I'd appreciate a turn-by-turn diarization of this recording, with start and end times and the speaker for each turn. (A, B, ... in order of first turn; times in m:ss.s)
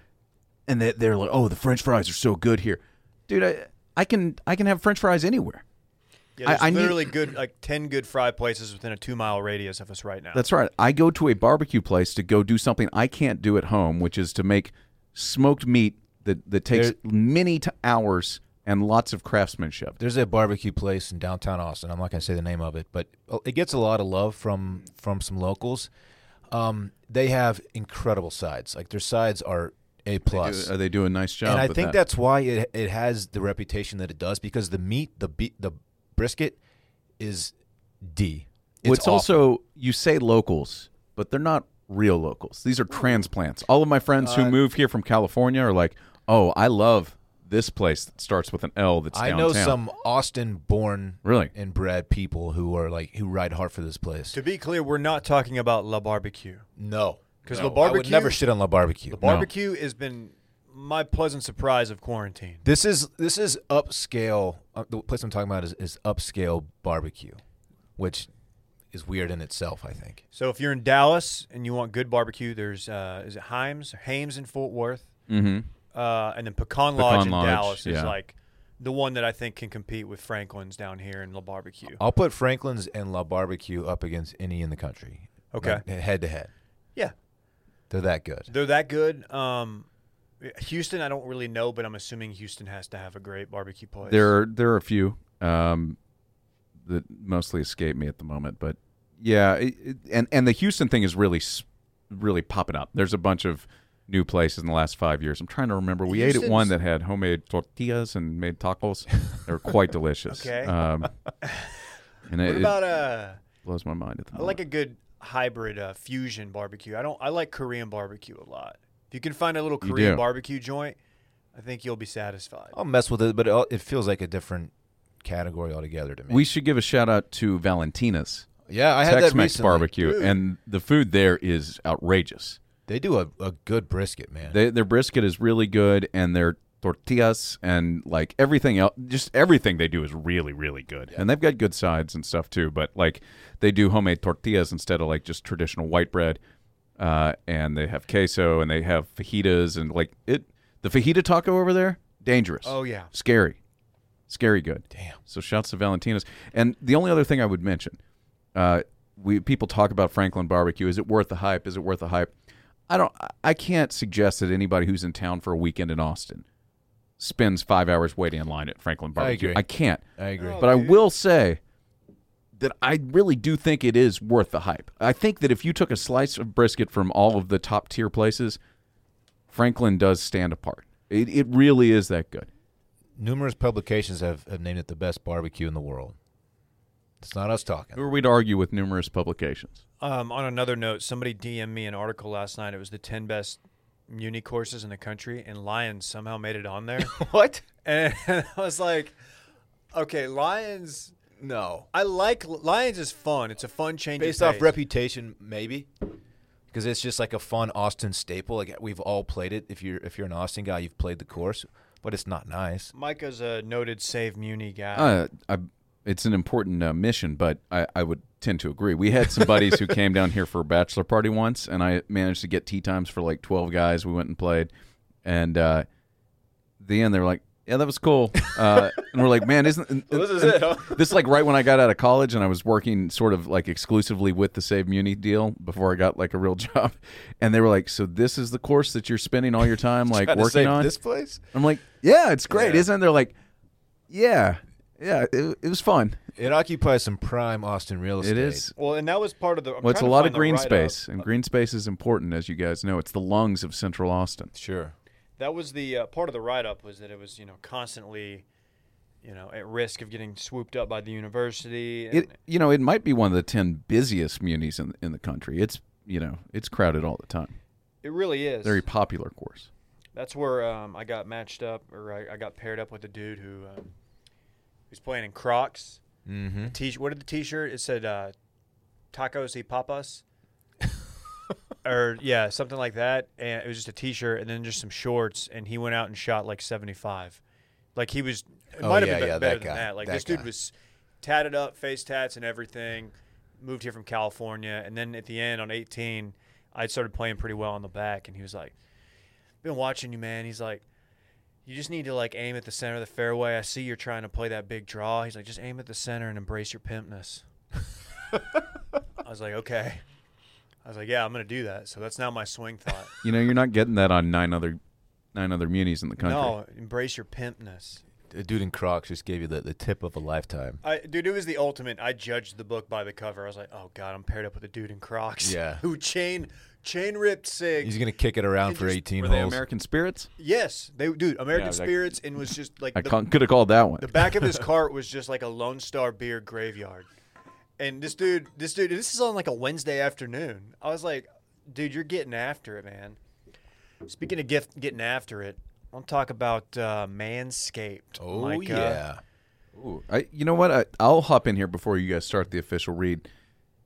0:00.7-0:05.6 A
0:06.4-0:10.4 B
0:06.4-0:07.1 A
0:10.3-0:20.0 A
0:16.7-0:17.0 C
0:20.0-0:25.9 C
0:26.5-0:30.7 C
0:30.3-0:32.0 A
0:31.4-0:36.6 C
0:37.2-0:39.5 C
0:38.8-0:49.8 A
0:44.2-0:44.6 C
0:49.1-0:54.4 C
0:51.2-0:51.5 A
0:54.3-0:56.6 B
0:56.8-0:59.2 C
0:57.4-0:58.4 B
0:59.1-1:02.6 B
0:59.2-0:59.5 A
1:02.6-1:07.4 C
1:08.0-1:08.3 C
1:08.9-1:10.2 C
1:10.3-1:15.1 B
1:15.3-1:15.7 A
1:15.9-1:22.0 B
1:17.0-1:18.1 A
1:22.0-1:26.5 C
1:25.5-1:25.8 B
1:27.9-1:28.5 C
1:28.5-1:29.9 B
1:30.4-1:34.3 B
1:34.1-1:36.0 A
1:36.8-1:51.1 A
1:46.1-1:46.7 B
1:50.3-1:50.7 B
1:51.4-1:51.7 B
1:52.3-1:52.7 A
1:52.4-1:53.4 B
1:53.6-1:54.6 A
1:54.3-2:01.0 B
1:59.8-2:00.2 A
2:01.5-2:02.8 B
2:02.7-2:06.5 C
2:06.3-2:08.5 A
2:08.6-2:09.9 C
2:09.0-2:12.6 A
2:10.0-2:10.4 B
2:12.9-2:14.6 C
2:14.5-2:26.4 A
2:27.0-2:33.6 A
2:32.6-2:33.1 B
2:34.3-2:38.0 A
2:34.9-2:35.2 C
2:38.5-2:42.3 A
2:42.9-2:46.4 A
2:47.2-2:50.0 A
2:49.2-2:49.6 C
2:50.2-2:50.6 C
2:50.4-2:51.0 B
2:50.6-2:51.6 A
2:52.6-2:58.6 A
2:59.5-3:02.5 A
3:03.2-3:06.2 C
3:07.2-3:08.0 C
3:07.9-3:09.8 A
3:10.0-3:17.1 B
3:17.0-3:17.6 C
3:17.8-3:19.1 B
3:19.9-3:21.1 B
3:21.4-3:21.9 C
3:21.9-3:24.8 B
3:24.2-3:25.9 C
3:26.7-3:32.9 C
3:32.9-3:35.2 B
3:34.9-3:44.7 A
3:45.2-3:45.8 A
3:46.8-4:00.9 A
3:48.5-3:48.8 C
3:50.1-3:51.2 C
4:00.1-4:01.4 C
4:01.5-4:03.3 A
4:02.5-4:02.8 C
4:04.1-4:06.2 A
4:06.4-4:08.7 C
4:08.2-4:08.7 A
4:08.8-4:11.0 B
4:09.8-4:14.5 A
4:14.5-4:14.9 C
4:15.4-4:18.4 B
4:19.2-4:22.3 B
4:22.1-4:27.6 A
4:28.0-4:28.8 B
4:28.6-4:29.7 A
4:30.1-4:33.9 B
4:34.9-4:36.0 B
4:36.2-4:36.8 C
4:36.6-4:38.3 B
4:39.1-4:40.2 B
4:41.8-4:47.4 B
4:47.9-4:58.7 B
4:48.8-4:50.5 C
4:59.6-5:00.8 B
5:01.6-5:07.4 B
5:09.2-5:10.0 B
5:10.8-5:13.1 B
5:13.2-5:14.8 A
5:15.3-5:16.6 A
5:16.2-5:18.0 B
5:18.3-5:20.8 C
5:20.8-5:28.0 B
5:25.4-5:25.8 C
5:27.8-5:29.6 C
5:28.6-5:29.0 B
5:29.2-5:30.3 A
5:30.4-5:33.2 B
5:31.5-5:31.9 A
5:32.9-5:34.2 A
5:34.0-5:37.1 B
5:37.8-5:43.2 B
5:44.0-5:49.0 B
5:48.2-5:49.2 C
5:49.8-5:53.3 A